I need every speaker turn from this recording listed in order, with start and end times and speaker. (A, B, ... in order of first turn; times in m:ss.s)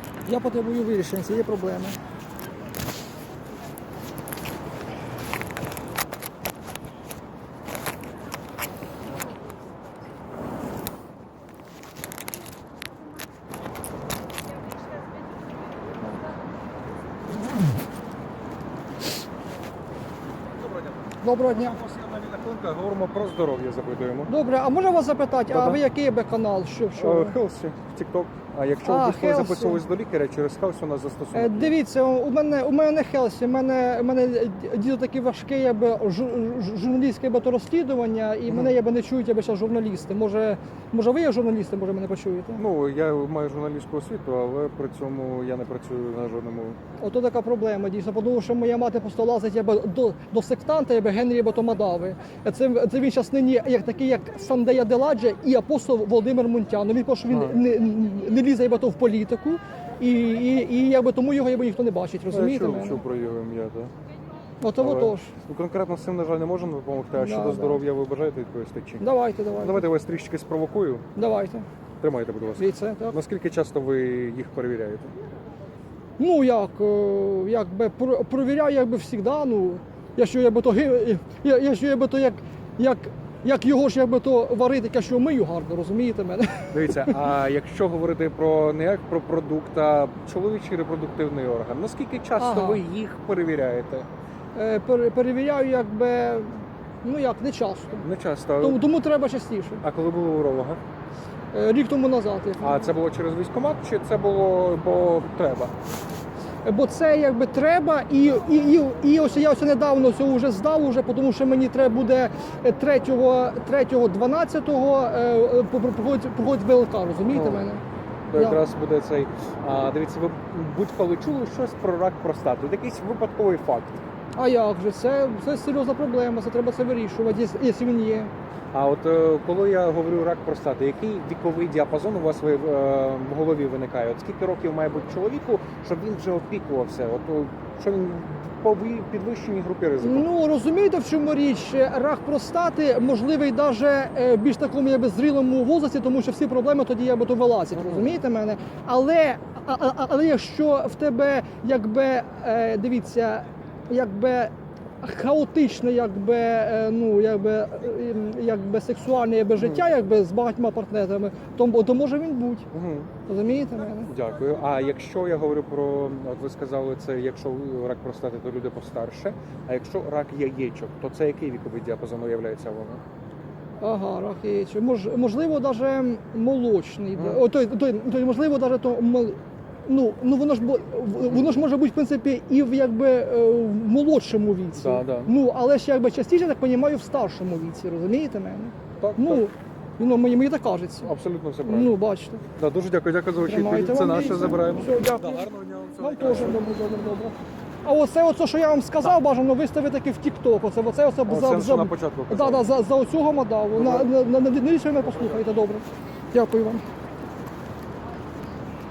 0:00.2-0:02.0 A
0:20.8-0:24.3 B
0:21.2-0:21.8 A
0:24.3-0:27.4 A
0:25.5-0:25.8 B
0:27.0-0:31.8 B
0:28.8-0:29.8 A
0:31.3-0:42.6 A
0:38.5-0:38.7 B
0:42.6-0:46.8 B
0:47.0-1:03.0 A
0:57.3-0:57.6 B
1:02.3-1:03.9 B
1:04.6-1:05.3 A
1:04.8-1:09.1 B
1:07.2-1:07.8 A
1:09.0-1:09.9 A
1:09.6-1:11.1 B
1:11.2-1:11.7 A
1:12.0-1:15.1 B
1:12.6-1:13.2 A
1:16.2-1:27.2 A
1:26.7-1:34.1 B
1:32.4-1:32.8 A
1:34.6-1:38.0 A
1:38.0-1:38.8 B
1:38.6-1:39.8 A
1:39.8-1:40.8 B
1:41.5-1:42.9 A
1:42.6-1:45.7 B
1:46.6-1:57.8 A
1:57.3-1:57.7 B
1:58.3-2:04.0 B
1:58.4-1:58.6 A
2:04.4-2:08.3 A
2:08.7-2:20.3 B
2:20.0-2:42.7 A
2:27.8-2:28.2 B
2:39.6-2:39.9 B
2:42.7-2:43.1 B
2:43.3-2:44.1 A
2:44.1-2:53.0 B
2:53.8-3:12.4 A
2:57.2-2:57.4 B
3:01.3-3:01.6 B
3:04.8-3:05.3 B
3:09.0-3:09.4 B
3:11.0-3:11.9 B
3:12.6-3:17.0 B
3:13.4-3:26.8 A
3:21.3-3:22.7 B
3:23.8-3:24.1 B